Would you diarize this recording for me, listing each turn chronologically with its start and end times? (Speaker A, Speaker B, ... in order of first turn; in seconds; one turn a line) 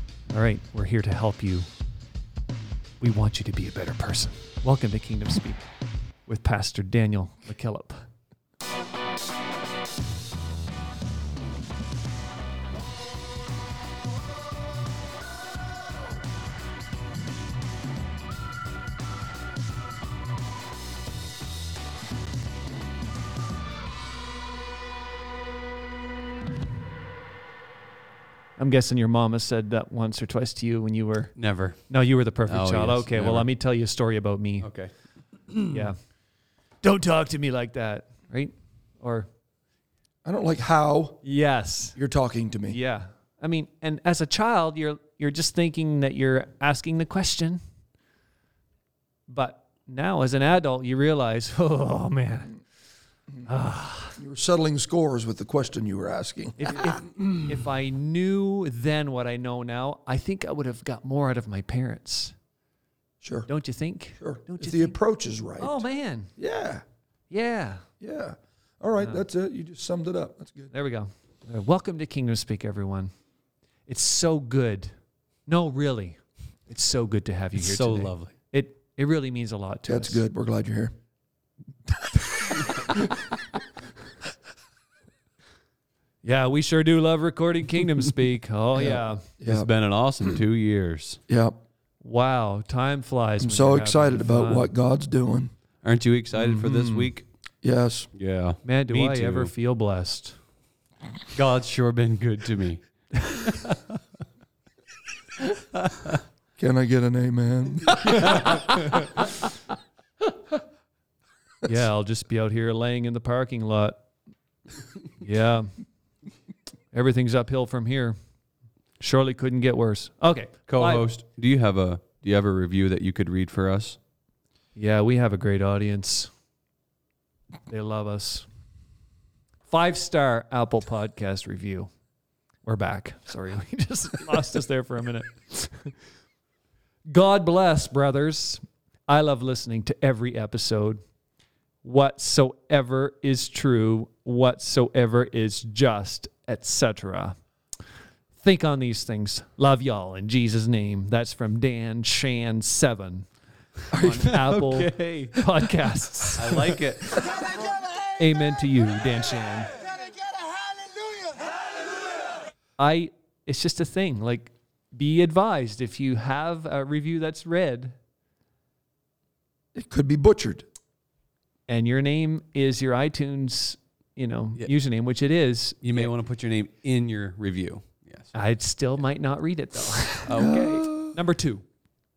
Speaker A: 0.3-1.7
Speaker A: 3.0-5.7
Speaker A: 6.2-8.1
Speaker A: 28.6-34.7
Speaker B: 31.4-33.5
Speaker B: 34.6-35.9
Speaker A: 35.7-36.0
Speaker A: 36.8-39.3
Speaker C: 40.2-41.2
Speaker A: 41.2-42.0
Speaker C: 42.0-42.8
Speaker A: 42.7-47.6
Speaker A: 49.3-52.6
Speaker A: 53.5-54.2
Speaker C: 54.2-57.1
Speaker A: 56.6-62.4
Speaker C: 63.2-63.5
Speaker A: 63.5-65.0
Speaker C: 64.2-65.8
Speaker A: 65.6-66.3
Speaker C: 66.4-66.8
Speaker A: 67.3-67.9
Speaker C: 68.0-70.7
Speaker A: 70.7-73.1
Speaker A: 73.9-75.0
Speaker A: 75.5-80.2
Speaker B: 77.5-78.3
Speaker C: 79.9-80.9
Speaker C: 81.9-83.4
Speaker A: 86.2-89.3
Speaker C: 88.8-89.7
Speaker B: 89.5-91.2
Speaker C: 91.3-91.5
Speaker A: 92.0-94.7
Speaker C: 93.4-95.5
Speaker B: 95.8-97.3
Speaker A: 96.5-97.0
Speaker C: 97.6-98.1
Speaker B: 98.2-99.5
Speaker A: 98.6-100.4
Speaker B: 101.3-103.3
Speaker C: 106.6-108.7
Speaker A: 108.3-108.8
Speaker A: 111.6-114.0
Speaker A: 115.2-115.8
Speaker A: 116.9-118.2
Speaker A: 119.0-121.1
Speaker B: 120.7-124.0
Speaker A: 124.8-126.3
Speaker A: 127.7-128.5
Speaker A: 129.7-131.9
Speaker A: 132.6-135.9
Speaker A: 137.1-141.0
Speaker A: 141.8-147.4
Speaker A: 148.4-153.3
Speaker C: 153.9-154.3
Speaker A: 153.9-156.8
Speaker B: 154.2-155.5
Speaker B: 156.4-157.3
Speaker A: 158.2-159.8
Speaker A: 162.8-168.0
Speaker C: 169.7-170.7
Speaker A: 171.7-176.1
Speaker B: 175.8-178.3
Speaker A: 178.3-181.7
Speaker B: 180.3-180.6
Speaker C: 180.3-181.1